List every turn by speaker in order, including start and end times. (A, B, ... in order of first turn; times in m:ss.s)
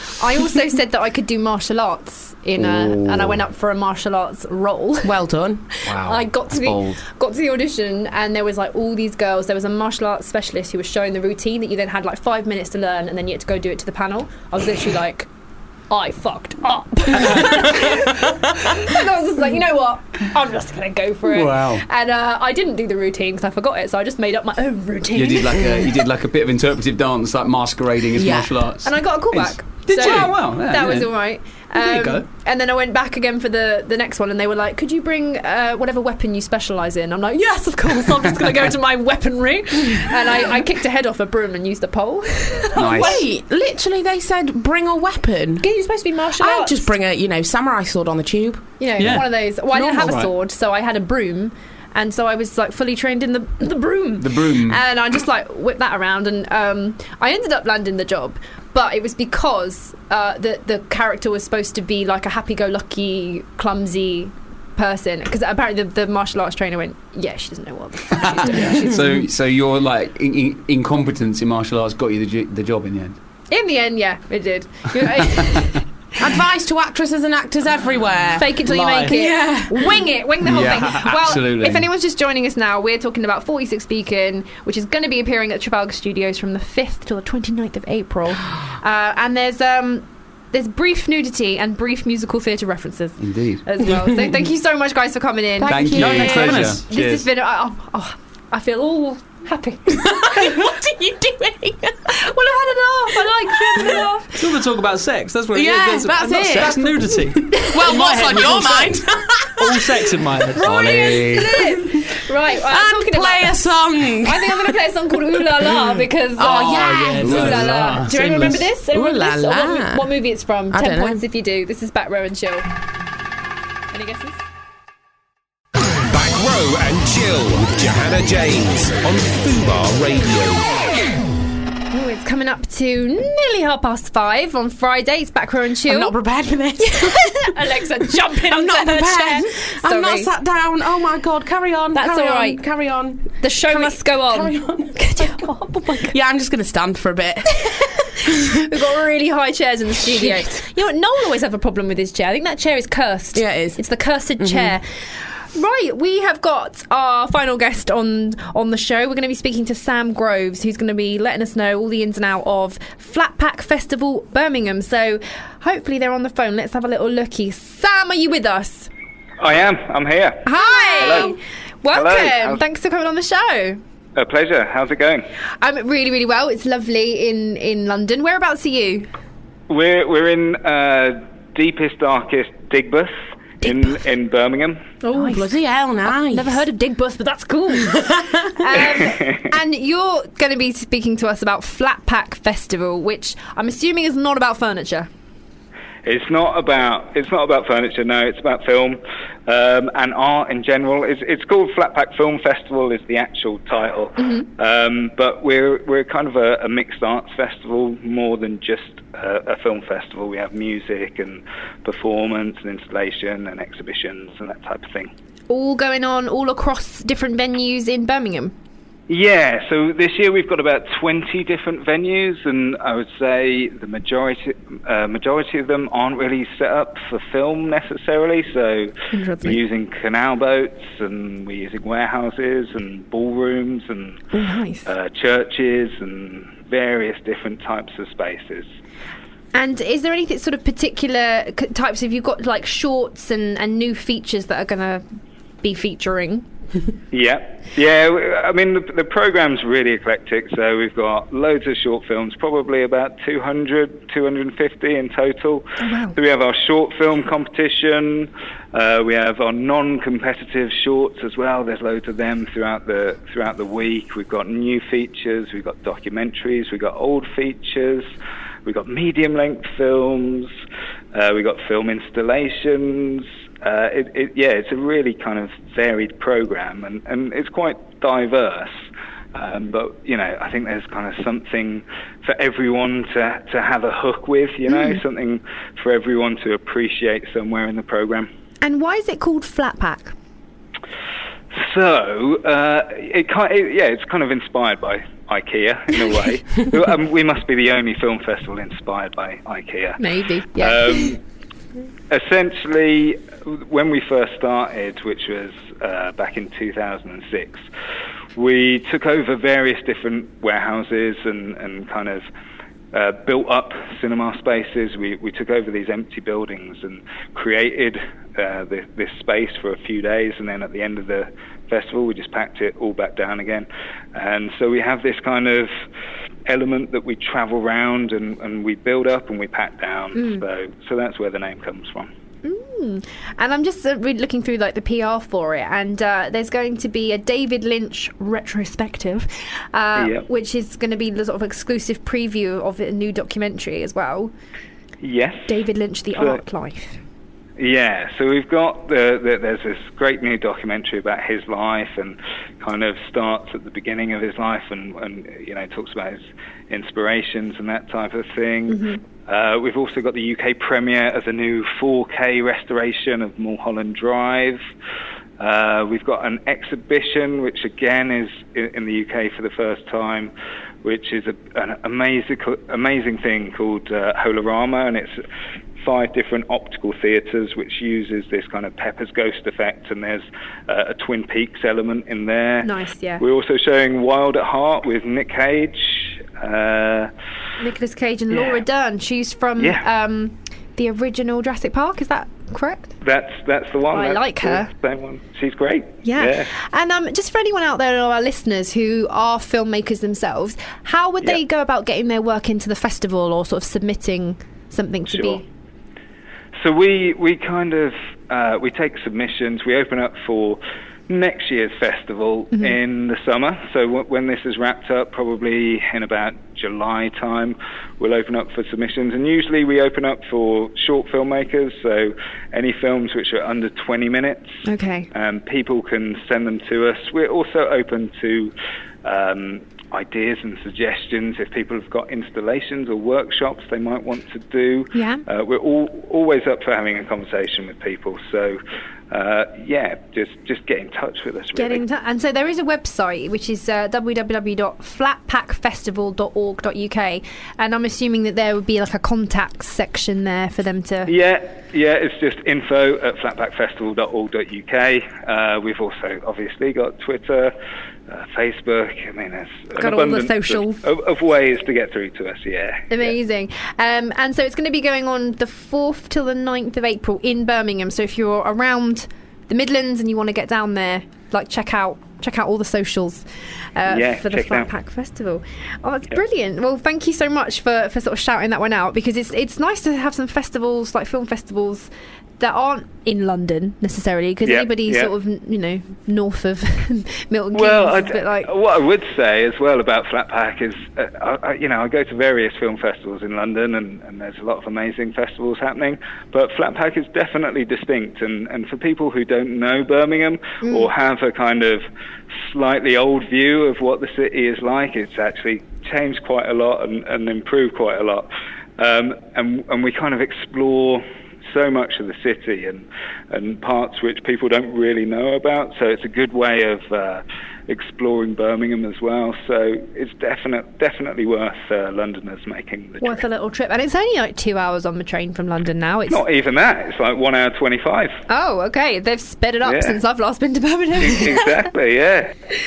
0:00.1-0:05.2 A
0:02.6-0:03.4 B
0:05.0-0:05.7 C
0:05.8-0:07.0 B
0:05.9-0:15.3 A
0:15.9-0:25.7 A
0:21.3-0:21.8 B
0:25.1-0:31.1 B
0:28.1-0:28.5 C
0:28.8-0:43.2 A
0:29.9-0:30.4 D
0:31.8-0:32.2 D
0:42.8-0:43.2 B
0:42.9-0:45.7 C
0:45.6-0:46.9 A
0:46.4-0:48.8 C
0:48.8-1:09.0 A
0:49.0-0:49.3 D
0:49.0-0:49.2 B
0:49.8-0:50.3 B
0:54.2-0:54.8 B
1:08.1-1:13.2 B
1:13.5-1:15.8 A
1:16.2-1:20.0 C
1:18.4-1:40.7 A
1:18.7-1:19.2 D
1:20.4-1:21.9 B
1:33.2-1:33.6 B
1:35.6-1:36.6 C
1:35.6-1:37.3 B
1:35.9-1:36.8 D
1:39.9-1:42.1 C
1:42.1-1:44.4 A
1:43.5-1:44.0 C
1:44.3-1:49.0 D
1:45.5-1:50.0 C
1:49.6-1:50.7 D
1:50.6-1:53.7 A
1:50.6-1:51.5 B
1:51.1-1:51.7 C
1:52.5-1:55.7 C
1:54.2-2:02.7 A
1:56.4-1:57.5 C
1:56.4-1:58.6 D
1:57.2-1:58.1 B
1:58.9-2:00.1 C
2:00.7-2:01.2 C
2:03.9-2:04.4 A
2:06.1-2:10.7 E
2:11.9-2:16.1 A
2:15.9-2:17.5 C
2:16.8-2:20.3 A
2:18.4-2:28.4 C
2:21.9-2:22.6 A
2:23.4-2:26.2 A
2:28.5-2:34.8 A
2:30.0-2:30.4 C
2:33.3-2:33.8 C
2:34.4-2:34.8 C
2:35.5-2:48.9 A
2:49.4-2:51.4 F
2:50.4-2:53.8 A
2:50.6-2:51.3 C
2:51.9-2:52.6 F
2:54.1-2:55.2 F
2:55.6-2:59.1 A
2:59.7-3:04.8 F
3:03.6-3:03.9 A
3:05.0-3:06.6 C
3:05.1-3:05.5 A
3:06.0-3:15.1 A
3:07.9-3:08.8 C
3:08.8-3:09.4 F
3:16.0-3:35.1 F
3:24.2-3:24.5 A
3:35.5-3:38.5 A
3:39.1-3:54.2 F
3:49.1-3:49.6 A
3:54.3-3:54.9 A
3:54.8-3:58.7 F
3:59.5-4:05.0 A
4:05.6-4:06.4 A
4:07.1-4:28.1 F
4:15.8-4:16.2 A
4:28.6-4:30.5 F
4:31.1-4:38.7 F
4:39.3-4:48.3 F
4:44.7-4:45.0 A
4:48.6-4:50.1 A
4:51.5-5:00.0 F
5:00.0-5:01.2 A
5:00.5-5:01.2 F
5:02.1-5:07.6 F
5:08.4-5:12.2 F
5:12.9-5:25.7 F
5:26.4-5:32.1 F
5:30.1-5:30.4 A
5:32.4-5:44.3 A
5:40.0-5:40.2 F
5:45.0-5:45.5 F
5:45.5-5:47.0 A
5:46.1-5:46.4 F
5:47.6-6:04.6 F
5:58.7-5:59.0 A
6:05.4-6:10.3 F
6:10.8-6:15.1 F
6:15.8-6:27.1 F
6:22.6-6:23.2 A
6:27.6-6:32.9 A
6:28.3-6:28.6 F
6:29.6-6:29.8 F
6:33.0-6:36.5 F
6:33.9-6:34.7 A
6:36.0-6:45.5 A
6:45.1-6:45.4 F
6:46.6-7:04.5 F
7:04.6-7:05.1 A
7:05.1-7:08.5 F
7:09.0-7:18.6 F
7:14.9-7:15.2 A
7:19.1-7:21.8 F
7:21.5-7:31.1 A
7:31.0-7:37.5 F
7:38.1-7:43.1 F
7:39.8-7:40.8 A
7:42.9-8:01.9 A
7:53.9-7:54.7 F
8:02.4-8:08.5 A
8:04.4-8:05.1 F
8:07.5-8:21.8 F
8:20.6-8:20.9 A
8:22.4-8:43.2 F
8:43.0-8:46.2 A
8:46.1-8:48.2 F
8:48.3-8:51.6 A
8:49.6-8:50.0 F
8:51.0-8:52.3 F